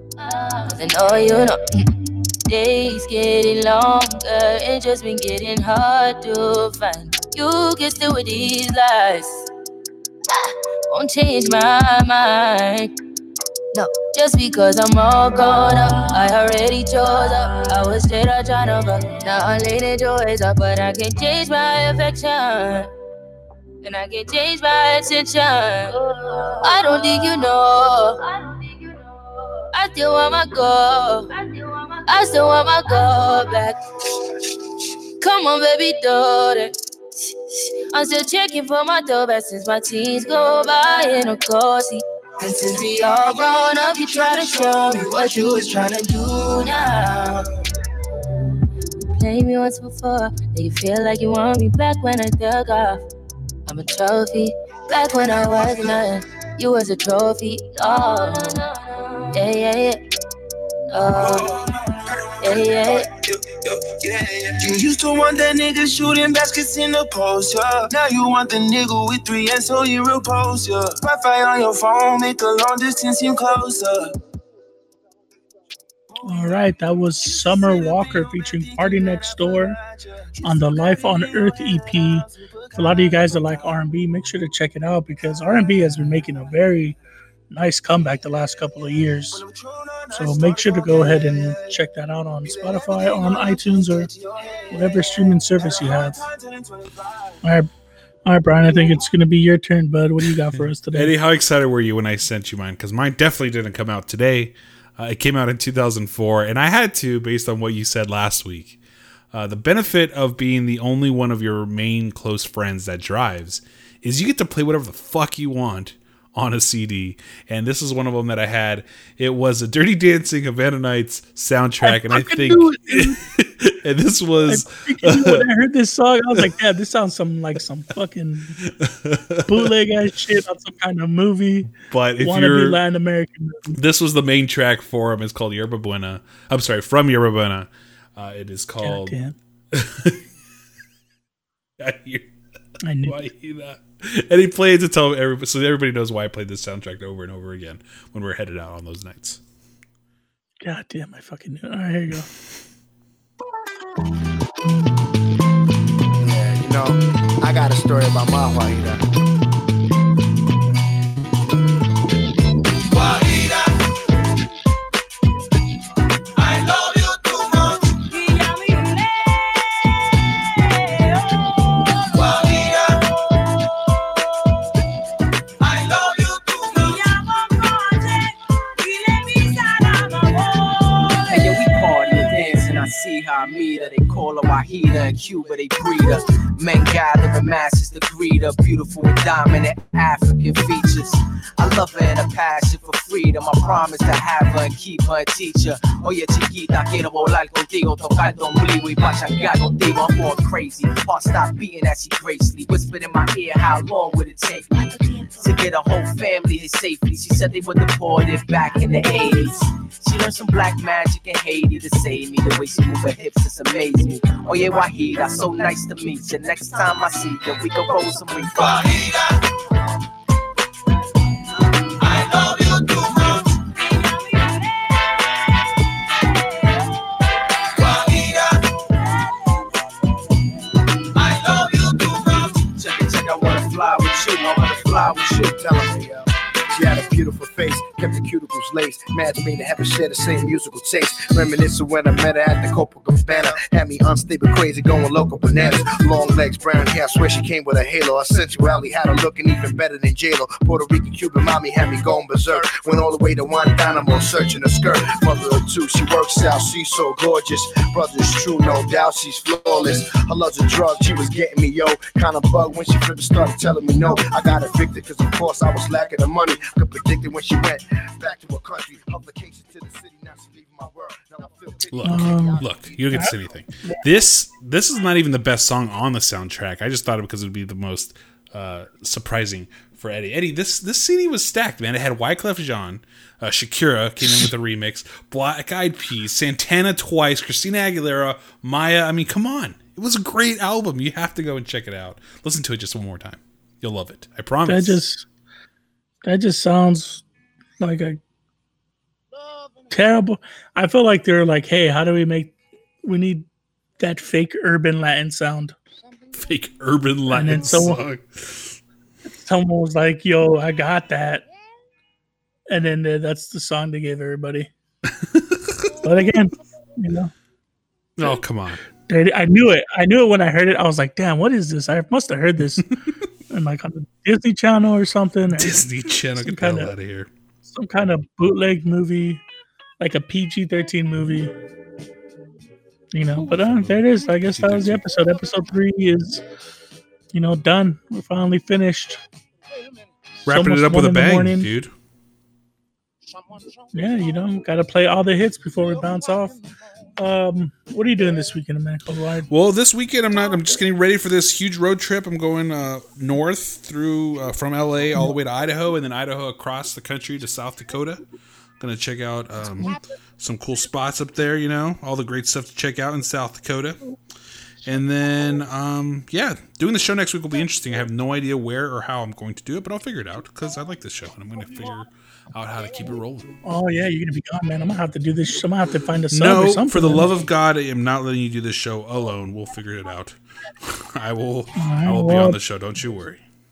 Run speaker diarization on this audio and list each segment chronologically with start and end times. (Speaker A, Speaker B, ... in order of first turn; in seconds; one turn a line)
Speaker A: 0.2-9.3
Speaker A: 10.9-12.9
Speaker A: 13.7-22.9
Speaker A: 23.8-28.9
Speaker A: 29.7-33.8
Speaker A: 35.2-36.7
Speaker A: 37.3-42.0
Speaker A: 42.6-47.2
Speaker B: 44.0-46.5
Speaker A: 49.1-53.0
Speaker A: 53.7-60.0
Speaker A: 60.9-61.6
Speaker A: 62.4-63.1
Speaker B: 63.1-74.1
Speaker C: 76.2-79.8
Speaker B: 77.2-79.8
Speaker B: 80.4-83.0
Speaker C: 80.4-87.0
Speaker C: 87.5-89.4
Speaker B: 89.7-91.8
Speaker C: 90.1-94.1
Speaker B: 92.6-97.3
Speaker C: 94.7-96.2
Speaker C: 97.4-97.7
Speaker C: 98.2-101.1
Speaker D: 100.6-108.8
Speaker D: 109.3-125.5
Speaker C: 121.8-123.2
Speaker C: 124.5-128.6
Speaker D: 128.6-129.7
Speaker C: 129.5-133.8
Speaker D: 131.9-132.8
Speaker D: 133.7-139.2
Speaker C: 138.8-139.4
Speaker D: 139.7-140.2
Speaker D: 141.8-142.3
Speaker C: 142.8-143.3
Speaker D: 143.1-149.4
Speaker C: 150.6-152.3
Speaker E: 156.2-159.0
Speaker B: 166.6-167.0
Speaker B: 172.2-172.6
Speaker F: 181.1-219.3
Speaker F: 222.0-223.9
Speaker F: 227.8-228.3
Speaker F: 231.2-235.4
Speaker E: 233.4-233.6
Speaker E: 234.7-272.6
Speaker D: 271.9-295.0
Speaker C: 272.0-274.0
Speaker C: 284.2-284.5
Speaker C: 294.7-295.3
Speaker C: 296.2-297.2
Speaker C: 297.8-298.2
Speaker C: 299.9-303.5
Speaker C: 304.0-305.8
Speaker D: 306.4-308.8
Speaker C: 307.3-308.0
Speaker C: 309.3-311.4
Speaker C: 312.7-314.7
Speaker D: 315.1-316.0
Speaker C: 316.0-317.3
Speaker D: 318.2-318.8
Speaker C: 319.0-322.9
Speaker C: 323.5-326.9
Speaker D: 325.5-327.3
Speaker C: 327.7-329.4
Speaker C: 330.0-331.6
Speaker C: 333.1-336.4
Speaker D: 333.3-335.0
Speaker C: 337.3-339.2
Speaker D: 340.5-341.9
Speaker C: 340.5-341.7
Speaker C: 343.9-346.6
Speaker C: 347.2-349.5
Speaker D: 349.5-358.2
Speaker D: 358.8-364.0
Speaker D: 364.8-373.5
Speaker C: 373.6-377.4
Speaker D: 376.3-383.4
Speaker C: 381.8-382.6